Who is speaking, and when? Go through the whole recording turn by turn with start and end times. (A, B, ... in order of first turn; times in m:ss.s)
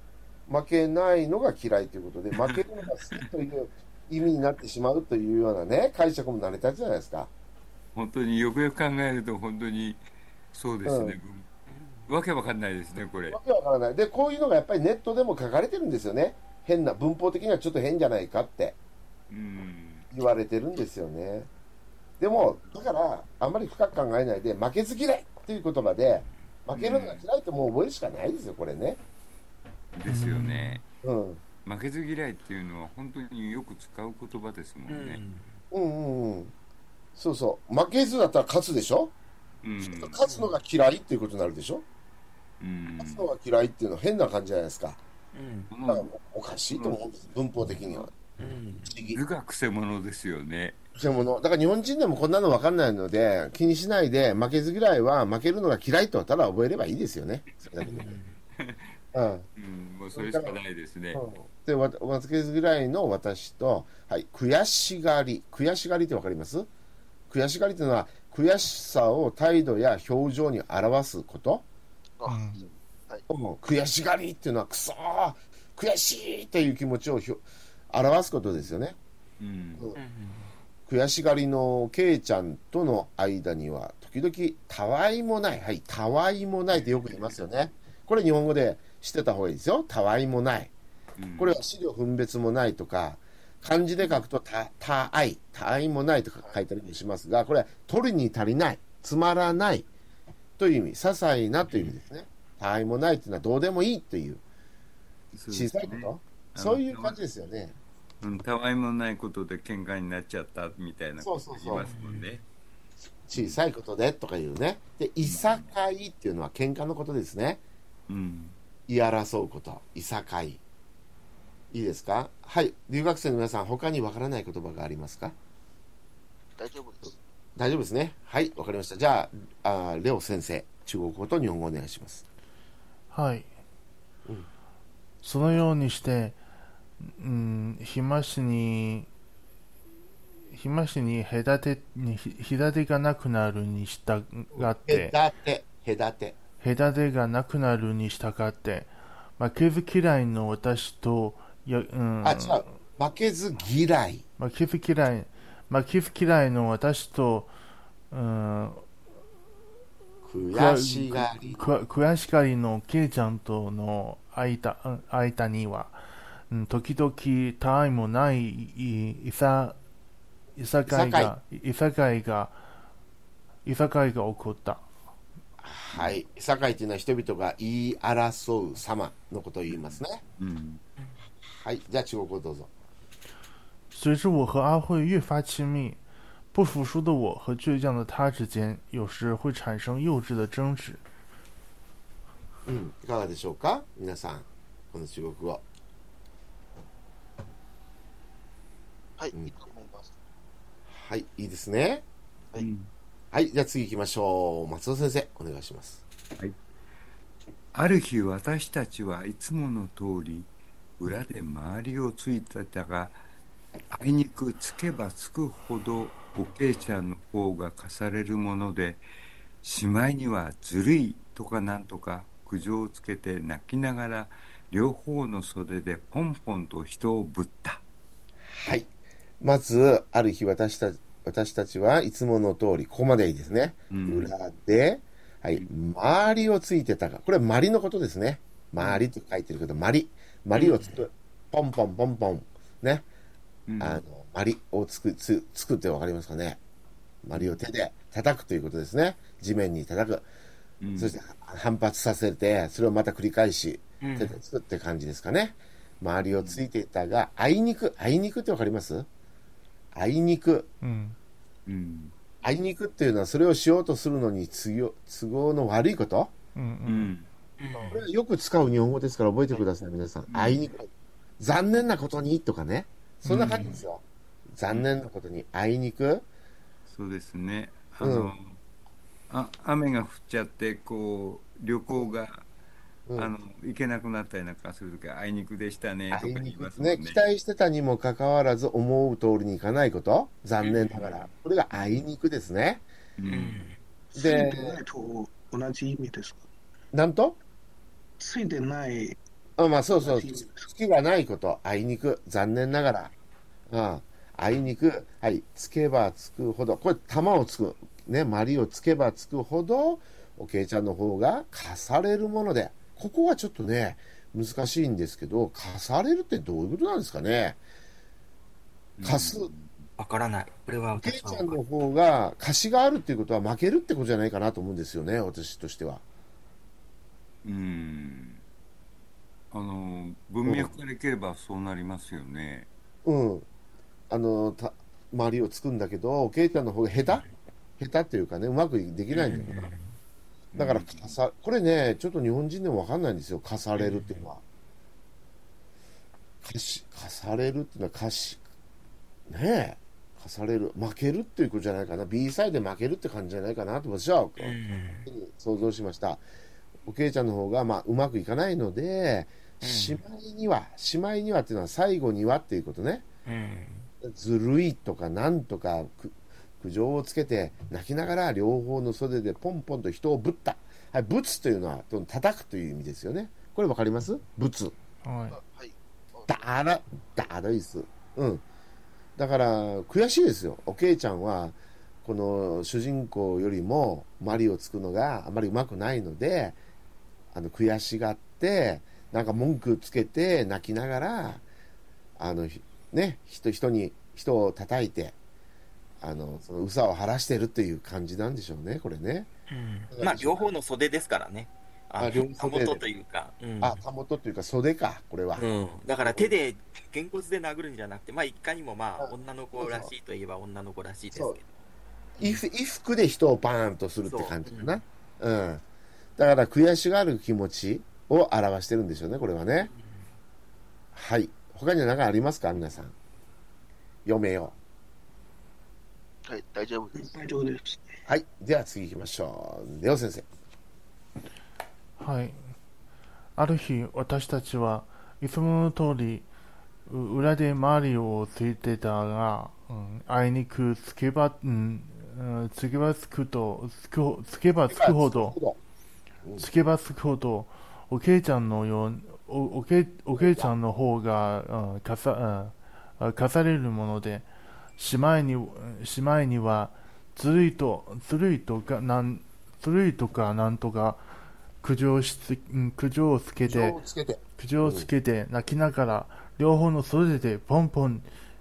0:00.5-0:07.3 A
0:07.9-0:10.0 B
0:10.5-0:11.5 B
0:10.8-0:11.2 A
0:11.7-0:12.1 C
0:12.1-0:13.4 B
0:13.3-0:18.8 A
0:19.3-0:20.0 B
0:20.1-0:21.5 A
0:22.2-0:29.0 A
0:22.3-0:22.8 B
0:26.7-0:27.2 B
0:29.9-0:30.8 B
0:30.1-0:30.8 D
0:31.0-0:31.4 A
0:31.6-0:35.2 B
0:34.9-0:35.6 C
0:35.7-0:36.5 A
0:37.2-0:39.1 A
0:39.6-0:40.2 B
0:39.8-0:41.8 A
0:40.2-0:40.5 C
0:42.6-0:43.3 B
0:43.0-0:45.0 A
0:45.3-0:45.7 C
0:45.7-0:46.1 B
0:45.9-0:48.1 A
0:46.7-0:47.2 B
0:48.4-0:48.9 C
0:48.8-0:49.2 A
0:49.1-0:50.8 B
0:51.0-0:58.1 A
0:57.6-0:58.0 B
0:57.8-0:58.4 C
0:58.6-0:58.9 B
0:59.1-0:59.4 A
0:59.6-1:01.2 B
1:00.1-1:00.6 A
1:01.1-1:06.7 A
1:07.3-1:11.6 A
1:12.2-1:13.2 E
1:12.2-1:12.6 D
1:13.3-1:19.0 A
1:19.4-1:19.8 B
1:19.9-1:20.5 C
1:20.9-1:30.7 A
1:31.2-1:31.6 B
1:31.4-1:39.9 A
1:40.6-1:44.4 A
1:45.3-1:47.2 B
1:45.5-1:47.7 A
1:48.2-1:52.4 B
1:51.2-1:51.9 A
1:51.8-1:52.2 C
1:53.3-1:57.6 A
1:53.3-1:53.6 B
1:55.2-1:55.7 B
1:58.1-1:58.6 B
1:58.9-2:00.6 A
2:01.7-2:05.4 A
2:06.6-2:07.2 E
2:07.6-2:12.2 A
2:13.1-2:13.5 D
2:15.2-2:16.4 D
2:17.0-2:19.1 D
2:20.5-2:25.1 D
2:24.5-2:26.4 A
2:26.6-2:32.6 D
2:32.2-2:34.2 A
2:34.4-2:37.5 D
2:38.1-2:38.8 D
2:40.2-2:41.7 A
2:40.5-2:49.8 D
2:50.6-2:52.6 D
2:50.9-2:51.3 A
2:53.6-2:54.9 D
2:55.6-3:00.2 A
2:55.9-2:56.2 B
2:59.7-3:00.8 B
3:01.4-3:02.7 A
3:03.9-3:06.0 D
3:06.5-3:11.0 D
3:12.6-3:15.6 A
3:19.2-3:20.1 E
3:20.9-3:22.0 A
3:22.6-3:22.9 B
3:23.3-3:26.0 A
3:27.7-3:33.2 B
3:33.9-3:39.0 B
3:39.6-3:47.8 B
3:48.4-4:03.1 A
3:53.9-3:54.3 B
4:00.6-4:01.0 C
4:03.7-4:04.0 B
4:03.8-4:06.6 A
4:07.2-4:10.3 A
4:10.8-4:11.1 B
4:11.0-4:19.1 A
4:14.0-4:14.3 C
4:19.9-4:20.7 A
4:20.8-4:21.2 D
4:21.6-4:22.1 B
4:22.4-4:26.3 A
4:26.6-4:27.1 D
4:26.8-4:27.3 B
4:27.6-4:28.0 C
4:27.7-4:28.0 E
4:27.9-4:30.8 A
4:30.3-4:30.7 B
4:31.4-4:36.3 A
4:33.2-4:33.7 B
4:33.5-4:33.8 C
4:34.7-4:35.0 B
4:36.9-4:38.6 B
4:38.0-4:38.3 A
4:39.3-4:42.4 B
4:43.1-4:43.3 A
4:43.1-4:47.2 B
4:46.1-4:52.8 A
4:50.6-4:52.0 B
4:53.2-4:53.6 B
4:53.2-4:53.8 C
4:54.1-4:56.5 F
4:54.2-4:54.8 A
4:56.9-4:57.4 A
4:58.2-4:59.2 F
4:59.6-5:03.1 A
5:00.0-5:00.7 F
5:03.7-5:17.6 A
5:19.0-5:19.9 B
5:19.0-5:19.5 A
5:20.0-5:21.6 C
5:20.9-5:26.0 A
5:27.4-5:28.4 B
5:29.5-5:32.7 B
5:30.4-5:30.8 A
5:33.0-5:33.5 A
5:34.1-5:37.2 A
5:37.8-5:39.7 A
5:39.1-5:39.9 C
5:40.5-5:41.0 B
5:40.5-5:44.4 A
5:43.8-5:44.3 C
5:46.4-5:48.4 A
5:49.3-5:56.2 A
5:54.4-5:55.1 C
5:56.8-6:03.0 A
5:59.6-6:00.0 C
6:03.2-6:03.9 C
6:04.0-6:14.7 A
6:15.0-6:15.4 D
6:15.3-6:16.5 E
6:16.3-6:18.4 A
6:19.2-6:26.6 A
6:27.3-6:31.4 A
6:32.2-6:35.2 A
6:36.0-6:39.3 A
6:39.5-6:43.8 C
6:39.9-6:40.5 A
6:42.0-6:42.8 A
6:43.6-6:45.5 A
6:45.4-6:51.6 C
6:46.0-6:46.3 A
6:49.0-6:49.9 A
6:51.1-6:51.4 A
6:52.2-6:55.6 A
6:54.1-6:54.8 C
6:56.2-6:59.7 A
6:59.6-7:00.1 C
7:00.9-7:02.9 A
7:04.0-7:04.6 A
7:06.2-7:07.2 E
7:06.9-7:08.0 F
7:08.1-7:10.2 A
7:12.0-7:12.4 D
7:13.4-7:16.3 D
7:16.9-7:25.4 D
7:24.7-7:25.6 A
7:26.4-7:41.1 D
7:30.1-7:30.5 A
7:41.6-7:43.8 D
7:43.4-7:44.9 A
7:44.4-7:48.1 D